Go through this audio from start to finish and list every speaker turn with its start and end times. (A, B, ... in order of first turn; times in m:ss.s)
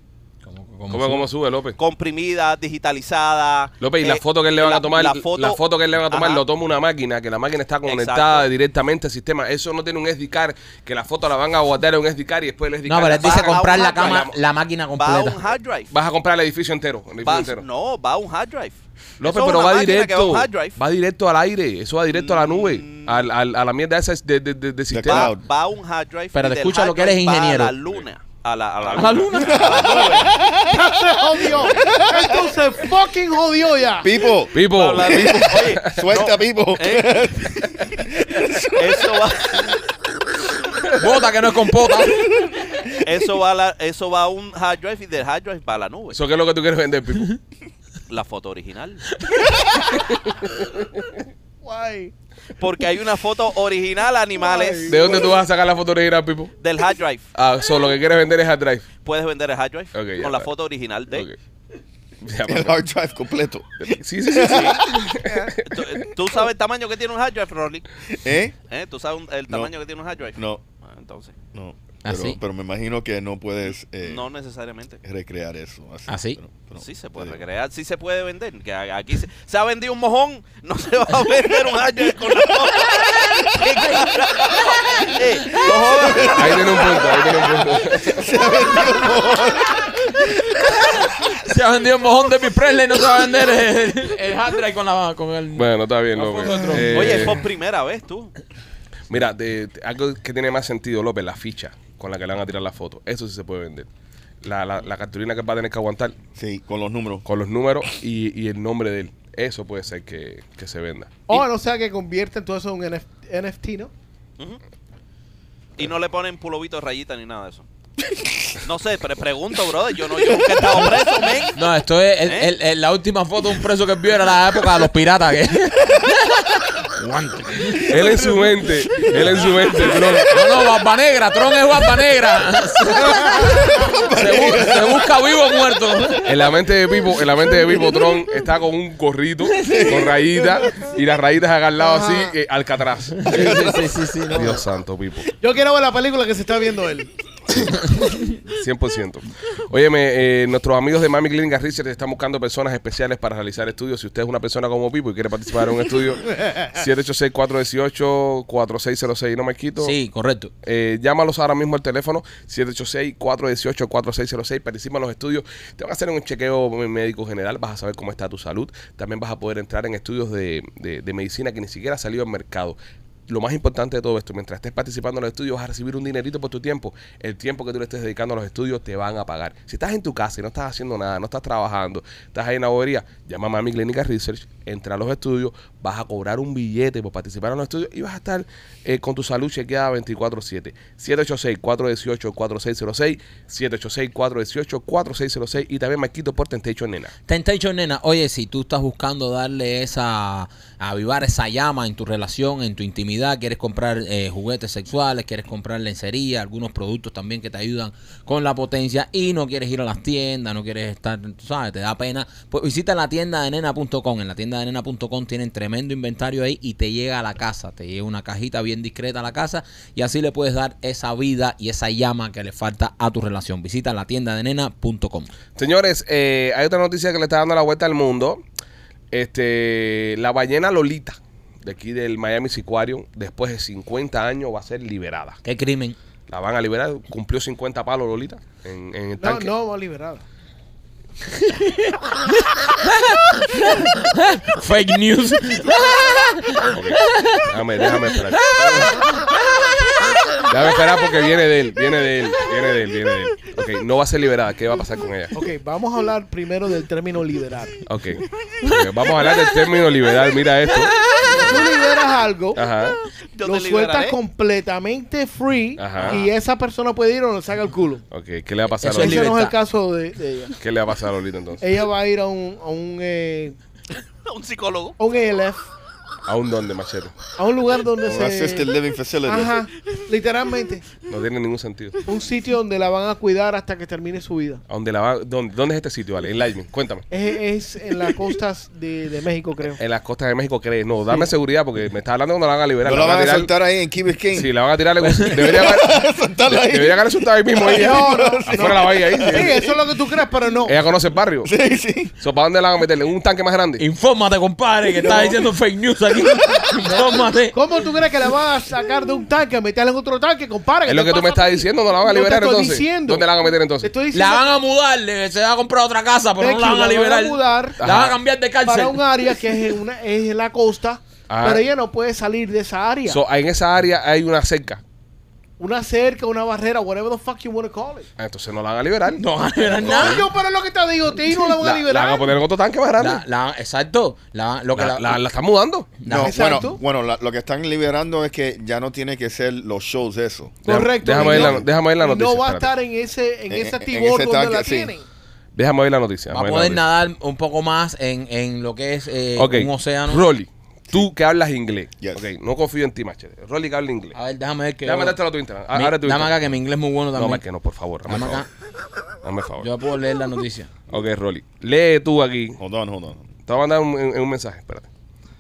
0:00.4-0:01.3 A
0:00.9-0:01.8 B
0:01.8-0:06.4 C
0:03.8-0:14.4 B
0:07.8-0:08.5 C
0:12.9-0:15.5 A
0:13.2-0:14.3 C
0:15.0-0:15.9 C
0:15.9-0:17.6 B
0:17.2-0:20.8 C
0:19.2-0:25.3 B
0:22.1-0:23.3 C
0:24.9-0:25.4 D
0:25.0-0:30.6 C
0:26.3-0:27.7 A
0:28.9-0:30.1 A
0:29.0-0:29.2 B
0:29.4-0:30.8 D
0:30.6-0:34.4 E
0:31.4-0:32.0 C
0:31.5-0:32.1 B
0:31.8-0:32.3 D
0:34.0-0:39.1 D
0:34.5-0:36.1 B
0:34.6-0:38.0 C
0:38.7-0:39.8 C
0:41.0-0:42.4 A
0:42.9-0:46.2 C
0:46.1-0:47.4 B
0:48.1-0:49.1 C
0:50.0-0:51.2 B
0:51.6-0:52.1 E
0:52.6-0:55.1 C
0:54.4-0:55.4 E
0:54.9-0:56.5 B
0:56.6-0:57.3 C
0:57.3-0:58.9 B
0:59.0-1:01.3 C
0:59.9-1:00.5 B
1:01.1-1:01.4 B
1:02.2-1:02.8 B
1:02.5-1:05.1 D
1:03.8-1:05.9 B
1:04.4-1:07.9 C
1:08.1-1:08.6 D
1:08.7-1:11.4 C
1:10.4-1:10.6 D
1:11.5-1:14.3 D
1:12.0-1:12.4 A
1:14.0-1:15.0 C
1:15.0-1:17.4 D
1:16.1-1:16.4 A
1:16.8-1:27.4 C
1:23.5-1:24.1 A
1:25.0-1:25.7 A
1:26.0-1:26.7 D
1:26.2-1:28.3 B
1:28.0-1:30.3 D
1:31.2-1:37.4 A
1:35.6-1:37.5 B
1:36.9-1:38.3 C
1:39.1-1:43.9 B
1:44.4-1:46.2 B
1:46.4-1:47.2 D
1:47.2-1:51.2 B
1:51.3-1:53.9 E
1:55.8-1:57.7 C
1:58.6-2:01.6 C
2:01.5-2:08.2 A
2:02.2-2:02.5 C
2:07.8-2:10.4 B
2:10.2-2:16.3 A
2:13.8-2:15.1 D
2:16.2-2:25.3 B
2:19.6-2:19.9 A
2:19.6-2:20.2 D
2:20.6-2:20.9 E
2:21.8-2:22.4 E
2:23.2-2:24.6 A
2:23.3-2:23.9 D
2:25.3-2:27.1 E
2:27.7-2:40.0 B
2:39.8-2:40.5 A
2:40.6-2:52.8 B
2:53.3-3:17.1 B
3:17.3-3:45.3 A
3:45.6-3:48.4 B
3:49.1-3:55.4 B
3:55.4-3:56.0 A
3:56.3-3:59.5 B
3:59.2-4:00.2 E
4:01.3-4:09.3 A
4:06.7-4:08.9 B
4:10.5-4:15.4 B
4:15.3-4:17.8 E
4:17.8-4:21.7 B
4:20.9-4:21.3 A
4:21.2-4:22.7 E
4:22.6-4:23.0 B
4:23.3-4:24.2 C
4:23.4-4:28.0 E
4:25.8-4:26.3 B
4:28.1-4:29.4 B
4:28.8-4:29.6 A
4:28.9-4:30.6 E
4:30.6-4:31.6 B
4:31.6-4:33.6 E
4:34.2-4:35.0 C
4:35.0-4:35.7 E
4:36.3-4:37.2 B
4:37.4-4:38.7 E
4:38.0-4:39.6 D
4:39.2-4:40.9 E
4:41.1-4:42.1 B
4:42.1-4:44.6 E
4:44.7-4:47.0 B
4:47.1-4:49.8 E
4:49.8-4:53.5 B
4:52.8-4:54.5 D
4:54.3-4:59.6 B
4:55.0-4:55.6 A
4:55.4-4:59.8 D
4:57.6-5:00.8 E
5:00.7-5:01.5 B
5:01.4-5:02.1 D
5:02.2-5:03.8 B
5:03.8-5:07.6 A
5:05.0-5:05.4 E
5:07.5-5:14.4 E
5:10.9-5:13.9 B
5:14.1-5:19.5 A
5:16.4-5:17.8 E
5:17.8-5:18.2 B
5:18.6-5:23.2 E
5:21.3-5:21.7 B
5:23.1-5:24.8 B
5:25.6-5:28.1 E
5:28.2-5:29.2 B
5:29.2-5:30.3 A
5:29.8-5:32.4 E
5:29.8-5:30.3 B
5:31.5-5:33.2 B
5:33.0-5:35.2 A
5:34.8-5:36.0 B
5:36.0-5:36.7 A
5:36.1-5:40.6 D
5:36.1-5:36.8 E
5:40.6-5:42.7 B
5:40.6-5:45.1 E
5:41.1-5:41.7 D
5:43.5-5:44.9 D
5:45.6-5:46.8 B
5:46.3-5:50.3 A
5:49.4-5:54.2 B
5:52.0-5:52.3 D
5:54.2-5:55.2 A
5:54.8-5:56.5 B
5:55.7-5:57.4 A
5:57.1-5:58.4 B
5:58.1-5:58.5 A
5:59.2-5:59.7 B
5:59.6-6:00.7 A
6:00.9-6:02.6 B
6:02.6-6:03.3 D
6:03.5-6:04.9 B